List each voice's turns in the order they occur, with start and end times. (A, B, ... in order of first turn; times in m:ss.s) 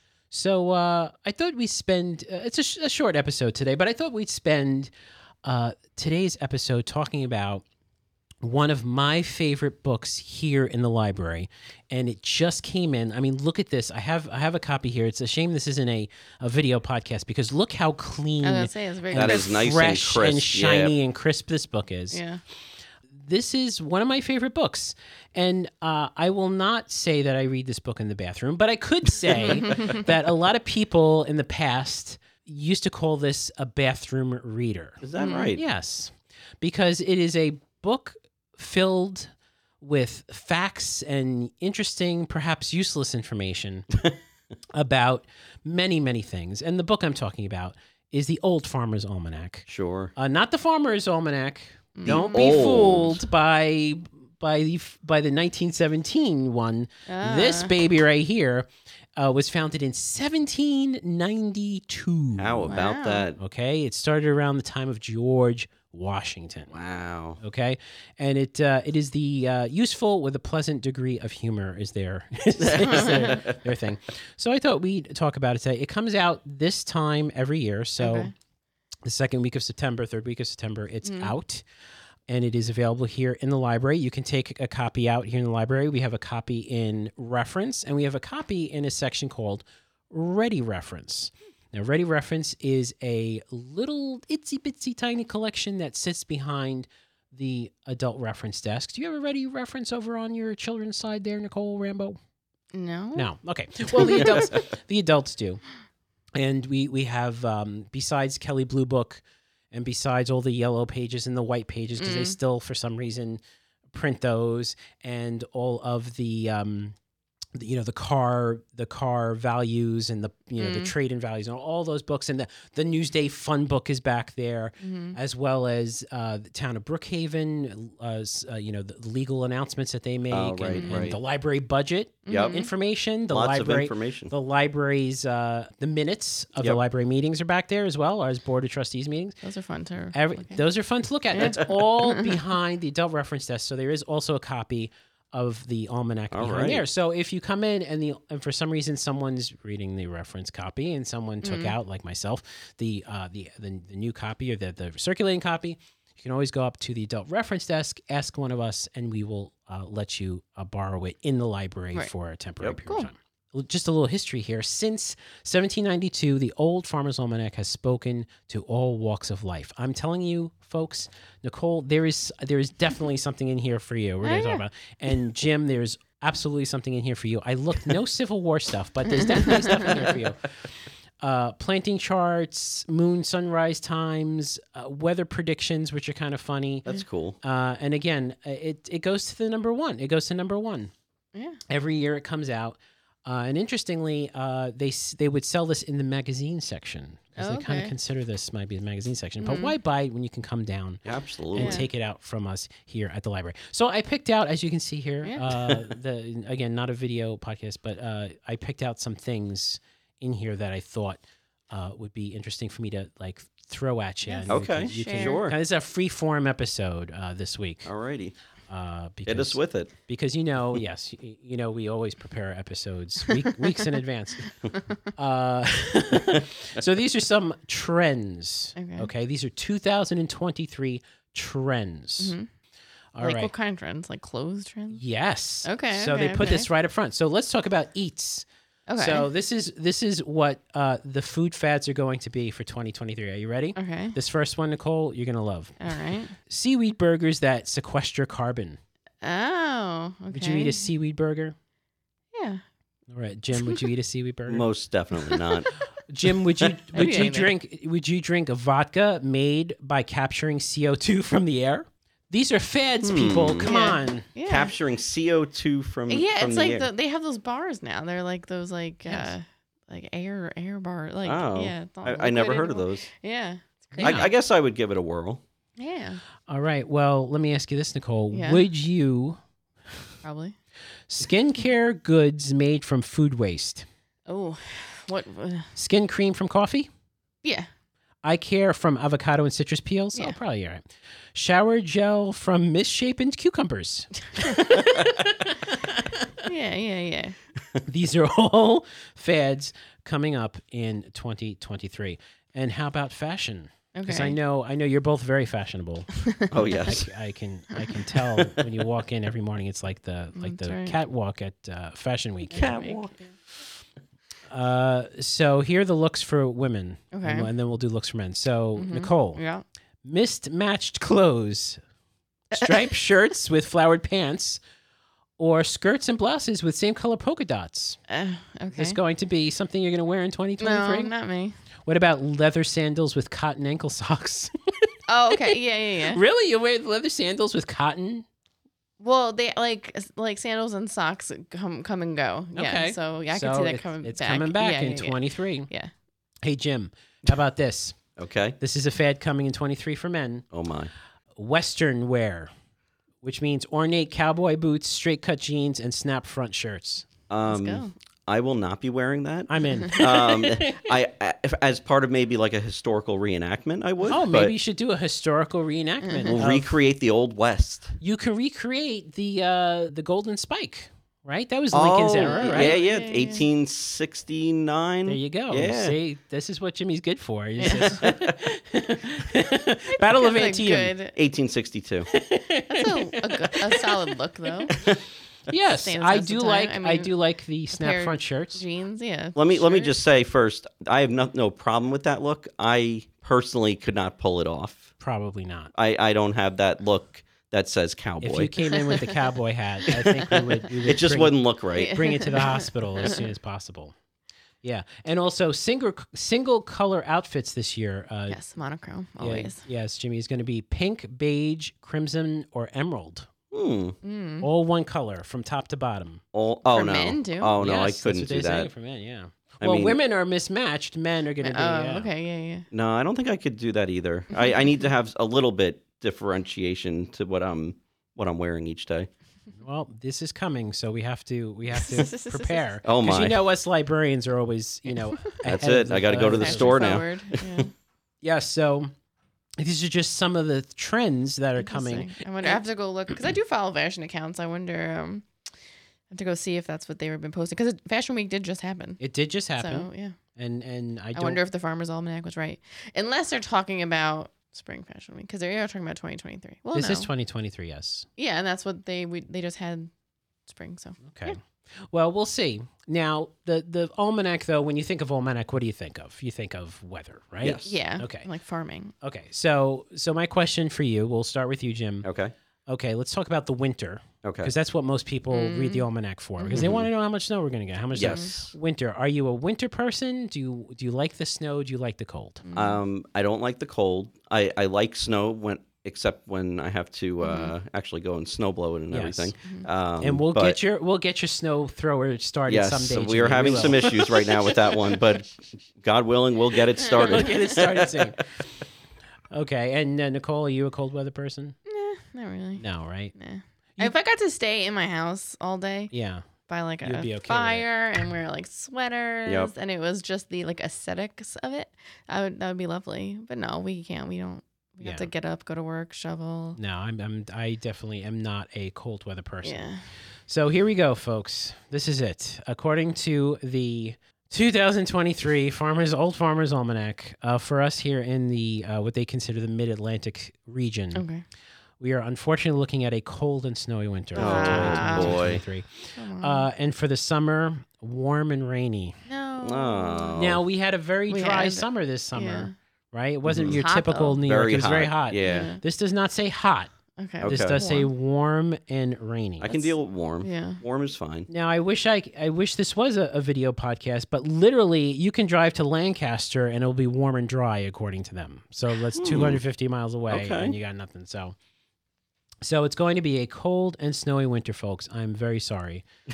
0:00.3-0:04.9 A
0:05.4-0:07.6 A
0:08.4-0:22.2 A
0:18.4-0:19.7 B
0:19.1-0:21.0 C
0:22.1-0:22.4 B
0:23.1-0:35.0 A
0:35.0-0:35.6 C
0:35.2-0:35.6 B
0:35.5-0:43.9 A
0:44.7-1:02.8 A
0:49.7-0:50.1 C
0:52.0-0:53.1 B
0:52.0-0:53.2 C
0:57.1-0:57.7 B
1:02.4-1:03.4 C
1:02.7-1:03.3 B
1:03.4-1:06.7 A
1:06.7-1:07.4 C
1:07.4-1:18.3 A
1:12.6-1:13.6 C
1:18.0-1:18.3 B
1:19.0-1:21.6 A
1:21.0-1:21.4 B
1:22.3-1:42.2 A
1:42.7-1:43.3 B
1:43.2-1:45.6 A
1:44.0-1:44.3 B
1:44.0-1:44.3 C
1:46.4-1:57.0 A
1:52.0-1:52.4 B
1:57.5-2:19.4 A
2:00.6-2:00.9 B
2:04.8-2:05.2 B
2:10.3-2:11.2 C
2:10.7-2:11.0 B
2:12.3-2:12.7 B
2:12.3-2:12.6 C
2:13.3-2:14.3 C
2:19.4-2:20.6 B
2:20.1-3:00.4 A
2:21.3-2:22.4 B
2:26.3-2:26.8 C
2:31.4-2:31.8 B
2:54.2-2:54.6 B
2:59.1-3:00.0 B
3:01.2-3:06.8 A
3:06.8-3:07.4 C
3:07.4-3:10.9 A
3:11.3-3:11.6 B
3:11.7-3:21.0 A
3:17.4-3:17.9 B
3:19.4-3:19.8 B
3:21.1-3:21.8 C
3:21.5-3:37.9 A
3:21.6-3:21.9 B
3:34.3-3:35.4 B
3:34.5-3:35.6 C
3:37.8-3:38.4 C
3:38.7-3:44.5 A
3:39.2-3:39.9 C
3:45.2-3:52.4 A
3:48.8-3:49.1 B
3:52.2-3:52.5 B
3:53.2-3:53.5 A
3:53.2-3:55.0 B
3:54.9-4:08.8 A
3:55.6-3:56.7 B
3:58.9-3:59.3 B
4:03.8-4:04.2 B
4:05.8-4:06.4 B
4:09.2-4:10.8 B
4:10.3-4:11.6 A
4:12.3-4:12.6 B
4:13.1-4:14.7 A
4:14.5-4:15.7 C
4:16.1-4:24.3 A
4:16.9-4:17.5 B
4:23.0-4:23.7 C
4:23.6-4:24.7 B
4:24.4-4:26.9 C
4:26.1-4:34.3 B
4:29.0-4:29.3 A
4:31.2-4:33.1 C
4:34.0-4:34.3 A
4:34.0-4:35.4 C
4:35.8-4:36.2 B
4:36.5-4:39.4 A
4:38.3-4:38.6 B
4:40.2-4:40.6 B
4:41.1-4:43.9 A
4:44.3-4:45.7 B
4:45.8-4:46.9 A
4:47.4-4:47.7 B
4:48.2-4:55.5 A
4:54.4-4:54.8 B
4:56.4-4:57.4 B
4:57.9-5:12.7 A
5:03.9-5:04.4 B
5:06.5-5:07.1 C
5:10.4-5:11.0 B
5:12.5-5:13.1 B
5:12.5-5:13.2 C
5:14.5-5:19.4 A
5:17.1-5:17.5 B
5:18.8-5:19.6 B
5:20.0-5:21.8 A
5:22.5-5:24.6 A
5:25.4-5:28.0 A
5:28.1-5:29.0 B
5:28.7-5:31.1 A
5:30.6-5:31.5 B
5:31.9-5:34.5 A
5:35.1-5:36.2 B
5:36.1-5:38.3 A
5:39.0-5:45.9 B
5:42.6-5:45.7 A
5:46.4-5:48.0 A
5:48.2-5:48.6 C
5:48.6-5:50.4 A
5:50.5-5:50.9 C
5:51.4-5:52.5 A
5:53.2-5:57.1 A
5:57.3-6:04.6 C
5:57.5-5:57.9 B
5:59.5-6:00.7 A
6:04.1-6:06.8 A
6:06.0-6:06.4 B
6:06.3-6:08.0 C
6:08.0-6:12.8 A
6:11.7-6:16.0 C
6:12.2-6:13.5 B
6:15.1-6:21.0 A
6:17.6-6:18.0 B
6:17.7-6:18.2 C
6:20.0-6:21.2 B
6:21.2-6:22.1 C
6:22.1-6:24.0 A
6:22.7-6:24.7 B
6:25.5-6:28.6 A
6:25.7-6:27.2 B
6:27.7-6:30.0 B
6:29.4-6:34.9 C
6:35.0-6:35.7 A
6:35.8-6:38.6 C
6:38.2-6:43.9 A
6:38.7-6:39.1 B
6:40.0-6:40.4 B
6:40.4-6:42.0 C
6:41.7-6:43.2 B
6:44.6-6:48.4 A
6:48.3-6:49.6 B
6:49.2-6:53.3 A
6:53.5-6:54.0 C
6:54.0-6:54.5 B
6:54.4-6:56.2 A
6:56.3-6:58.7 C
6:56.7-6:57.6 B
6:57.6-7:02.1 A
6:59.6-7:00.0 C
7:01.4-7:02.7 B
7:02.7-7:09.1 C
7:09.6-7:17.0 A
7:11.7-7:12.8 B
7:12.8-7:13.4 C
7:15.4-7:17.6 C
7:16.2-7:17.7 B
7:18.2-7:18.9 A
7:19.6-7:22.6 A
7:21.6-7:25.3 B
7:26.1-7:29.0 B
7:29.0-7:31.4 A
7:29.6-7:30.2 B
7:31.2-7:37.1 B
7:36.7-7:38.1 A
7:38.2-7:39.9 B
7:40.5-7:41.4 B
7:41.1-7:41.4 A
7:41.9-7:48.3 A
7:47.4-7:47.7 C
7:47.6-7:48.9 B
7:49.0-7:52.1 A
7:52.0-7:52.3 C
7:52.7-8:02.4 A
7:54.2-7:54.5 C
7:55.3-7:56.7 B
7:56.5-7:56.9 C
7:57.9-7:58.6 C
8:02.4-8:02.8 B
8:02.6-8:10.6 C
8:07.2-8:07.5 B
8:08.9-8:09.3 A
8:10.0-8:14.1 A
8:12.5-8:18.1 C
8:16.9-8:18.2 A
8:19.3-8:21.6 A
8:21.7-8:25.9 B
8:22.6-8:23.1 A
8:25.9-8:26.2 A
8:26.5-8:36.6 B
8:26.8-8:27.7 A
8:29.3-8:29.5 C
8:34.8-8:35.1 A
8:36.6-8:39.6 A
8:39.4-8:39.9 B
8:40.3-8:51.0 A
8:50.9-8:51.2 B
8:51.8-8:59.0 A
8:54.2-8:55.3 B
8:54.2-8:55.4 C
8:56.0-8:56.5 B
8:59.1-9:00.2 B
8:59.4-9:00.4 C
9:00.2-9:06.7 A
9:01.1-9:02.5 B
9:03.2-9:03.6 C
9:03.5-9:04.2 B
9:04.2-9:05.5 C
9:05.2-9:05.6 B
9:07.0-9:07.9 B
9:07.2-9:07.6 C
9:07.2-9:09.5 A
9:09.4-9:11.3 C
9:09.5-9:10.6 B
9:11.3-9:21.4 A
9:19.0-9:19.4 C
9:20.1-9:20.6 C
9:22.4-9:25.8 A